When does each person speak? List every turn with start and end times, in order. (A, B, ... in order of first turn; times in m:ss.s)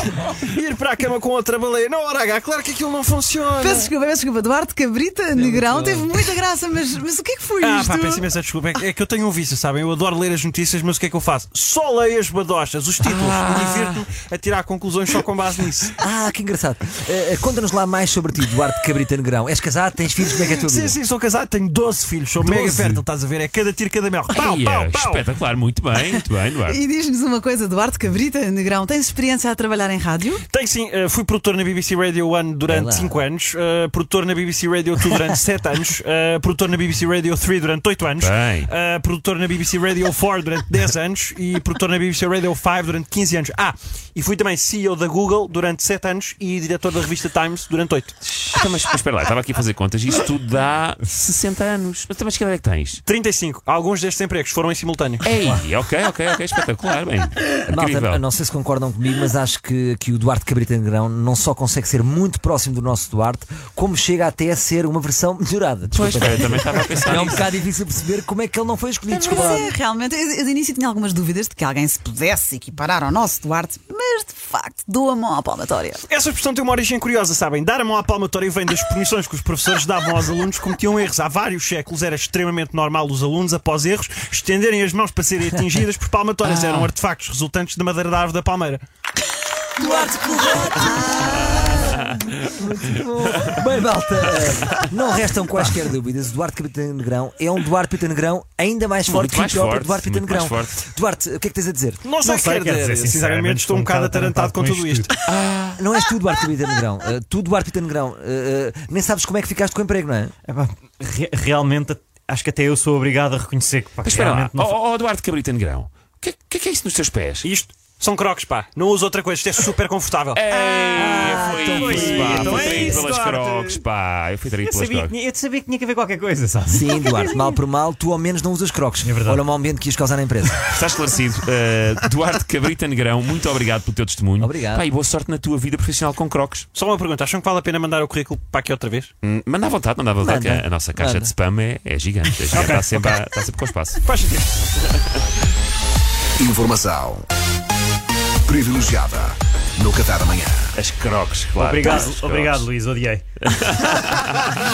0:00.4-0:03.9 A
0:03.6-0:08.3 B
0:05.4-0:06.0 C
0:07.6-0:15.9 A
0:13.0-0:14.0 D
0:16.0-0:21.0 C
0:20.4-0:25.2 A
0:22.4-0:23.0 D
0:24.4-0:26.8 D
0:26.1-0:30.4 B
0:30.5-0:48.2 A
0:32.7-0:33.2 C
0:38.2-0:38.7 D
0:48.3-0:53.0 D
0:53.1-0:55.3 A
0:55.2-0:58.2 D
0:57.7-1:09.7 C
1:05.9-1:07.5 D
1:09.1-1:16.0 B
1:16.1-1:28.8 A
1:29.8-1:42.0 C
1:30.5-1:32.2 D
1:39.1-1:40.8 D
1:42.0-1:45.1 A
1:42.2-1:45.1 E
1:45.2-1:45.8 D
1:45.8-1:50.3 C
1:50.5-1:54.8 E
1:54.0-1:57.5 D
1:57.4-2:00.5 A
2:00.4-2:05.1 D
2:00.8-2:03.8 E
2:00.9-2:03.0 C
2:02.4-2:03.4 A
2:04.6-2:07.6 E
2:06.7-2:10.6 C
2:09.0-2:09.4 E
2:10.7-2:16.7 D
2:14.4-2:14.8 C
2:16.8-2:19.1 A
2:19.2-2:24.0 D
2:20.2-2:21.3 C
2:22.7-2:23.1 E
2:24.0-2:24.5 A
2:26.4-2:27.3 F
2:28.5-2:30.7 F
2:30.7-2:32.7 D
2:31.6-2:33.9 E
2:33.4-2:34.5 D